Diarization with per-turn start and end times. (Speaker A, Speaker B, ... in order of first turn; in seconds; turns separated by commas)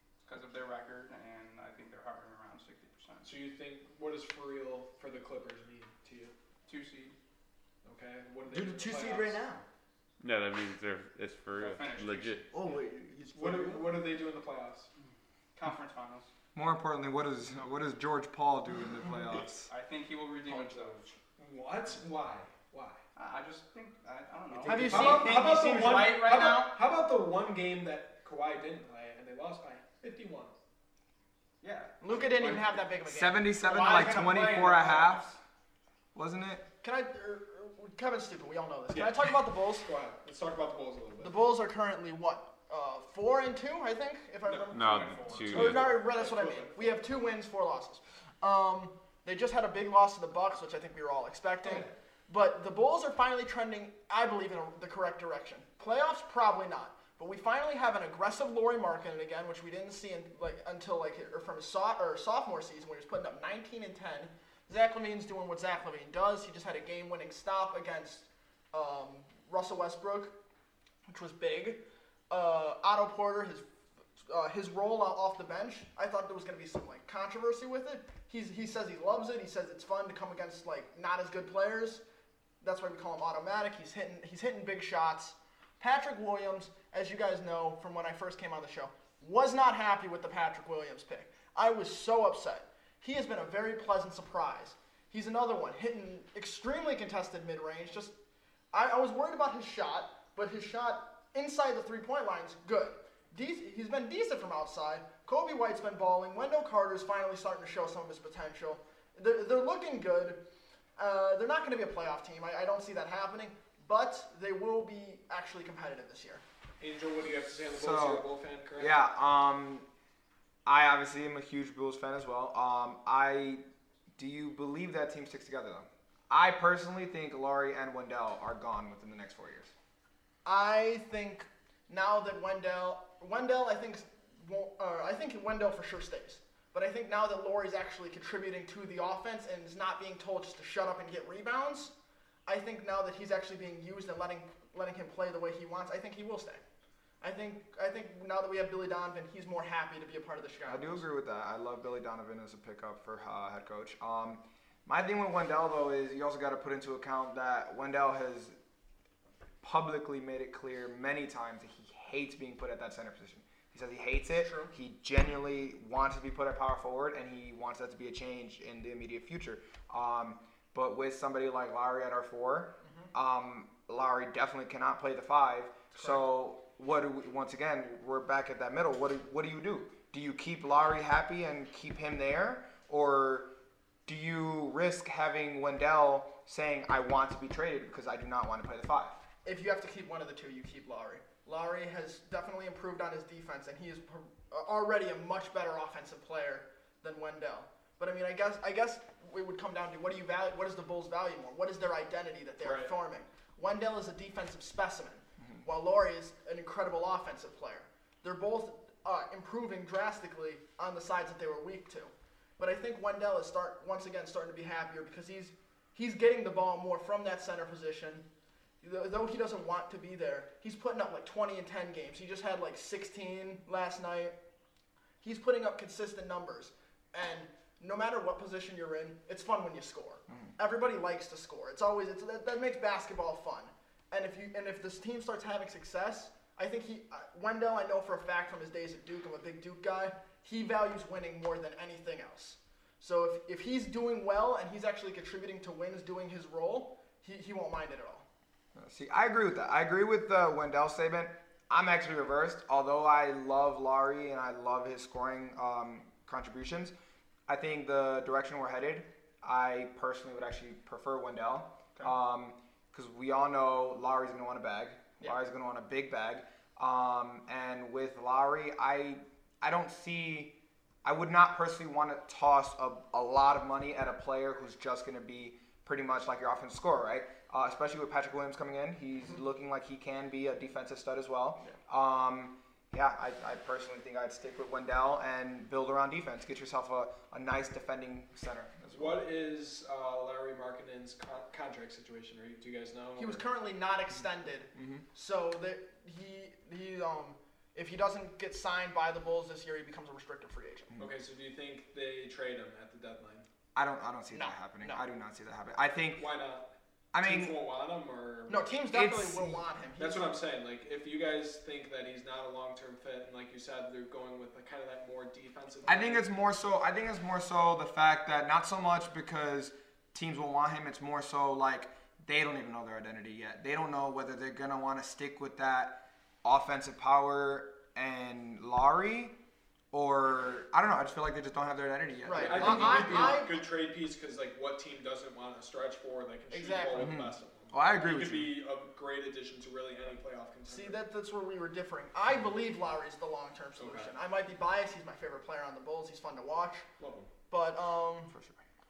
Speaker A: 0.2-3.3, Speaker B: 3.2-6.3, Speaker A: 6.7-7.2, Speaker B: 7.8-9.4, Speaker C: 8.5-9.6, Speaker D: 10.2-12.4, Speaker A: 11.5-12.8, Speaker C: 12.5-14.0, Speaker B: 13.3-14.9, Speaker A: 15.0-16.3, Speaker E: 16.5-19.7, Speaker A: 19.7-21.0, Speaker B: 20.4-23.0, Speaker A: 23.1-26.8, Speaker C: 24.6-25.1, Speaker F: 24.6-25.4, Speaker B: 24.7-30.5, Speaker A: 31.6-32.8, Speaker F: 32.0-33.5, Speaker E: 33.0-35.3, Speaker A: 33.6-35.2, Speaker E: 36.1-36.6, Speaker F: 36.8-39.9, Speaker B: 38.9-41.4, Speaker F: 41.2-70.3, Speaker B: 44.4-47.0, Speaker D: 44.7-46.0, Speaker B: 51.6-51.9, Speaker F: 71.1-73.6, Speaker F: 74.2-82.0, Speaker F: 82.6-98.1, Speaker F: 98.7-110.4, Speaker F: 111.0-116.4, Speaker B: 116.8-119.0, Speaker E: 117.7-118.2, Speaker E: 118.8-119.8, Speaker E: 120.7-123.6, Speaker E: 124.2-129.7, Speaker F: 130.4-141.9, Speaker F: 142.5-146.6, Speaker F: 147.2-151.0, Speaker E: 150.7-158.6, Speaker E: 159.6-183.5, Speaker F: 164.3-164.7, Speaker F: 175.9-176.2, Speaker E: 184.1-189.2, Speaker F: 189.4-218.2, Speaker B: 202.6-202.9, Speaker F: 218.8-224.3, Speaker F: 225.2-248.2, Speaker E: 248.7-256.9, Speaker E: 257.5-289.2, Speaker B: 288.9-293.4, Speaker F: 293.2-301.0, Speaker E: 294.8-295.0, Speaker B: 301.0-303.4, Speaker E: 303.7-306.3, Speaker F: 304.3-305.0, Speaker B: 306.1-308.8, Speaker E: 307.1-307.5, Speaker F: 308.5-310.3, Speaker E: 308.9-309.6, Speaker B: 310.0-316.3, Speaker E: 315.8-329.4, Speaker E: 329.9-333.4, Speaker F: 332.2-333.6, Speaker B: 332.3-341.0, Speaker F: 336.5-337.2, Speaker E: 337.0-338.5, Speaker F: 340.7-346.9, Speaker B: 343.8-344.1, Speaker B: 347.0-347.3, Speaker F: 347.5-348.3, Speaker E: 348.3-348.6